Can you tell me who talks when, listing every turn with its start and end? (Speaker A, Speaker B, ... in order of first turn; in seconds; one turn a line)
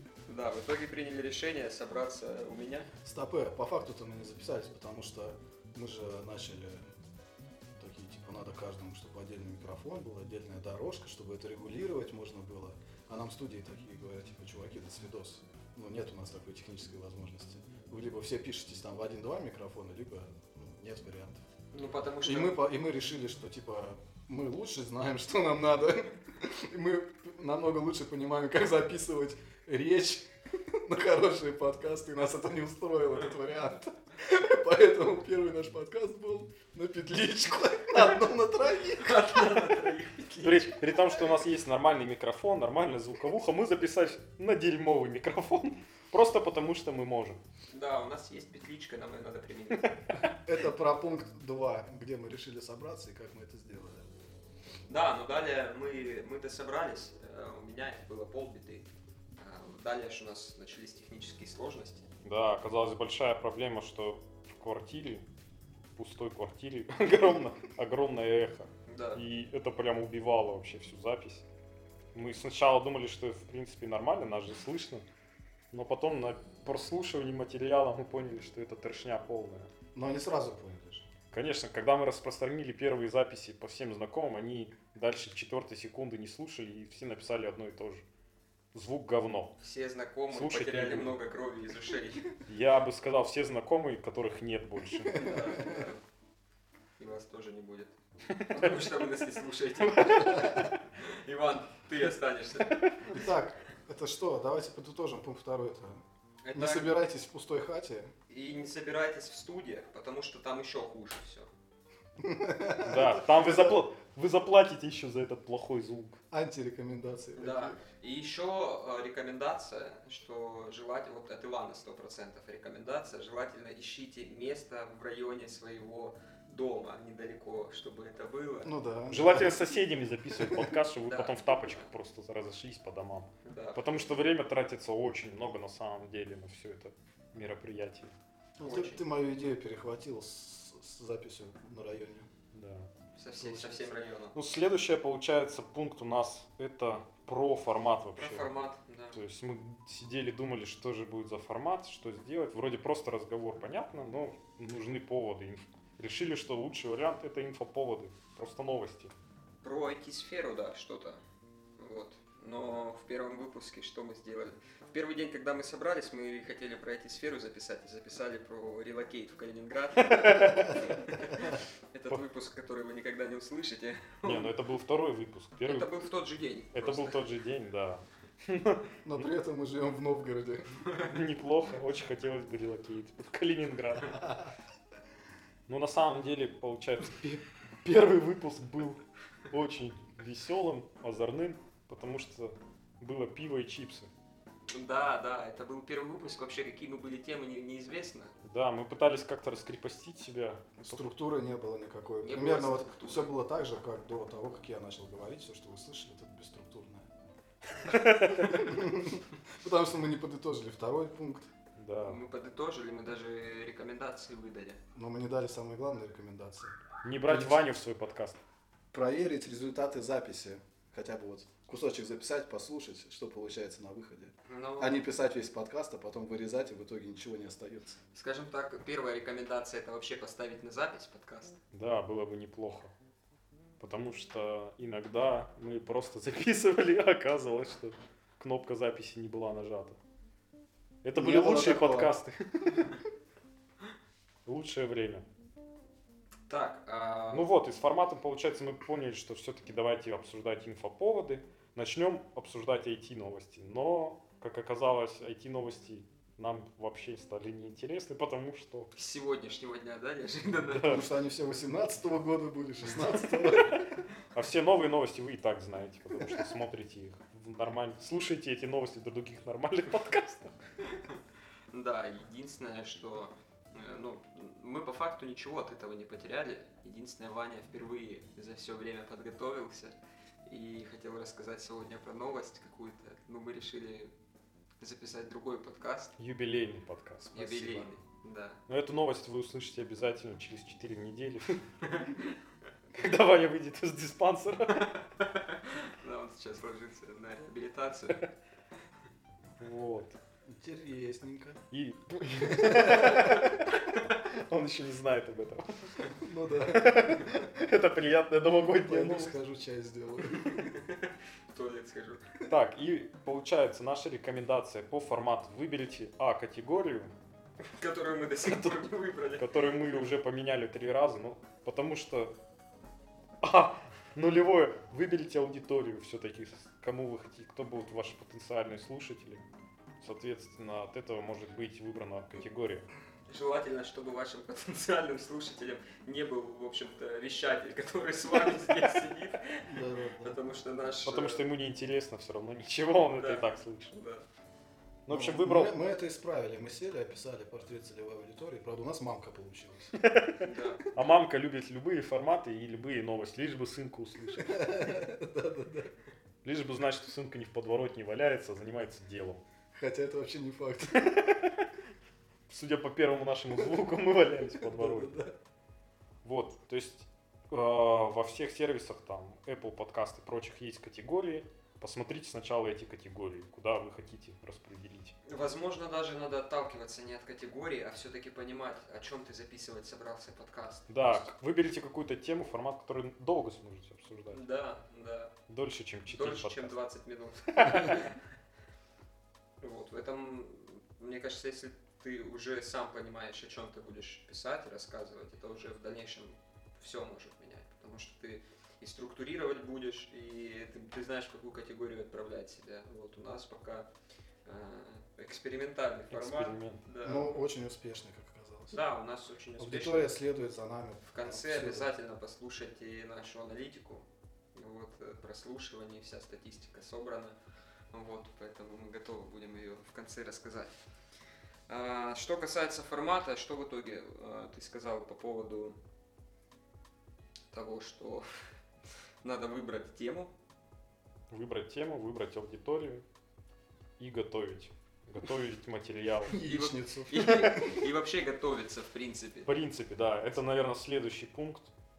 Speaker A: 0.3-2.9
Speaker B: 3.0-6.9
Speaker B: 7.7-21.4
Speaker A: 21.7-22.6
Speaker B: 22.2-39.7
Speaker A: 39.0-40.8
Speaker C: 40.4-47.4
Speaker A: 47.7-50.2
Speaker B: 50.3-54.1
Speaker A: 54.9-62.1
Speaker C: 62.2-65.2
Speaker C: 66.0-71.4
Speaker A: 68.9-69.2
Speaker C: 72.1-75.0
Speaker C: 75.7-79.7
Speaker B: 79.9-81.1
Speaker C: 81.3-88.0
Speaker C: 88.7-89.6
Speaker A: 89.6-92.3
Speaker C: 90.3-91.2
Speaker C: 92.5-95.2
Speaker B: 95.1-95.9
Speaker A: 95.1-96.0
Speaker A: 97.0-103.3
Speaker C: 98.4-98.8
Speaker C: 99.9-100.6
Speaker B: 103.1-106.0
Speaker A: 106.4-106.9
Speaker B: 106.5-108.1
Speaker A: 108.3-111.5
Speaker B: 112.2-113.8
Speaker C: 112.8-116.2
Speaker B: 116.3-117.8
Speaker A: 117.4-128.7
Speaker B: 128.6-129.7
Speaker C: 129.1-138.1
Speaker B: 130.3-130.8
Speaker A: 131.1-131.9
Speaker A: 133.4-134.1
Speaker B: 138.6-142.3
Speaker A: 138.6-139.0
Speaker C: 142.5-142.9
Speaker A: 143.2-144.3
Speaker B: 143.4-143.7
Speaker C: 144.3-148.5
Speaker A: 148.2-149.2
Speaker C: 149.1-159.1
Speaker A: 159.6-161.2
Speaker A: 161.8-174.5
Speaker C: 170.0-170.8
Speaker C: 174.2-175.9
Speaker A: 175.6-177.2
Speaker C: 176.7-179.2
Speaker B: 179.0-180.6
Speaker C: 181.0-184.4
Speaker C: 185.7-194.1
Speaker A: 194.7-198.3
Speaker C: 198.4-201.0
Speaker B: 200.8-207.1
Speaker A: 202.2-203.3
Speaker C: 207.8-208.6
Speaker B: 208.3-211.5
Speaker C: 211.8-212.2
Speaker A: 212.0-214.8
Speaker B: 214.9-217.7
Speaker C: 217.0-218.4
Speaker B: 218.9-228.0
Speaker A: 224.4-225.0
Speaker A: 228.1-231.6
Speaker C: 231.7-232.9
Speaker C: 233.8-240.0
Speaker C: 241.0-243.0
Speaker B: 241.1-242.1
Speaker C: 244.4-245.2
Speaker A: 246.5-247.5
Speaker C: 247.3-258.9
Speaker A: 258.9-261.1
Speaker C: 260.7-261.0
Speaker B: 260.8-263.9
Speaker C: 263.4-270.5
Speaker A: 271.7-284.1
Speaker A: 284.8-286.1
Speaker C: 286.2-287.9
Speaker A: 287.3-288.6
Speaker C: 288.7-291.6
Speaker A: 291.8-292.4
Speaker C: 292.9-294.9
Speaker A: 294.7-298.2
Speaker C: 299.6-300.2
Speaker B: 300.5-301.6
Speaker C: 301.7-306.1
Speaker B: 302.4-303.6
Speaker B: 306.2-307.5
Speaker C: 306.7-309.3
Speaker B: 308.8-310.8
Speaker A: 310.4-312.2
Speaker C: 312.5-317.1
Speaker A: 317.8-319.5
Speaker C: 318.5-318.9
Speaker C: 319.4-322.3
Speaker C: 323.4-329.4
Speaker C: 330.0-332.9
Speaker A: 333.3-341.4
Speaker B: 339.6-340.4
Speaker C: 341.0-344.0
Speaker A: 343.1-344.2
Speaker C: 345.1-345.7
Speaker B: 345.1-349.9
Speaker C: 350.0-354.8
Speaker A: 350.4-350.8
Speaker B: 354.4-355.9
Speaker C: 356.4-359.4
Speaker B: 359.7-361.3
Speaker C: 361.0-361.7
Speaker C: 362.5-365.1
Speaker B: 364.5-365.3
Speaker C: 366.2-375.1
Speaker A: 375.2-381.3
Speaker C: 380.9-384.4
Speaker A: 384.3-385.3
Speaker C: 385.5-386.8
Speaker A: 386.1-388.2
Speaker C: 387.5-388.1
Speaker A: 389.6-403.9
Speaker A: 404.4-407.4
Speaker C: 406.1-406.8
Speaker B: 407.0-408.8
Speaker A: 408.7-410.1
Speaker B: 409.6-411.9
Speaker A: 411.0-417.4
Speaker A: 417.9-420.7
Speaker A: 421.7-425.8
Speaker A: 427.5-428.3
Speaker A: 429.2-430.3
Speaker C: 431.3-433.0
Speaker C: 434.0-436.4
Speaker B: 436.3-437.8
Speaker A: 436.4-439.5
Speaker C: 439.4-441.7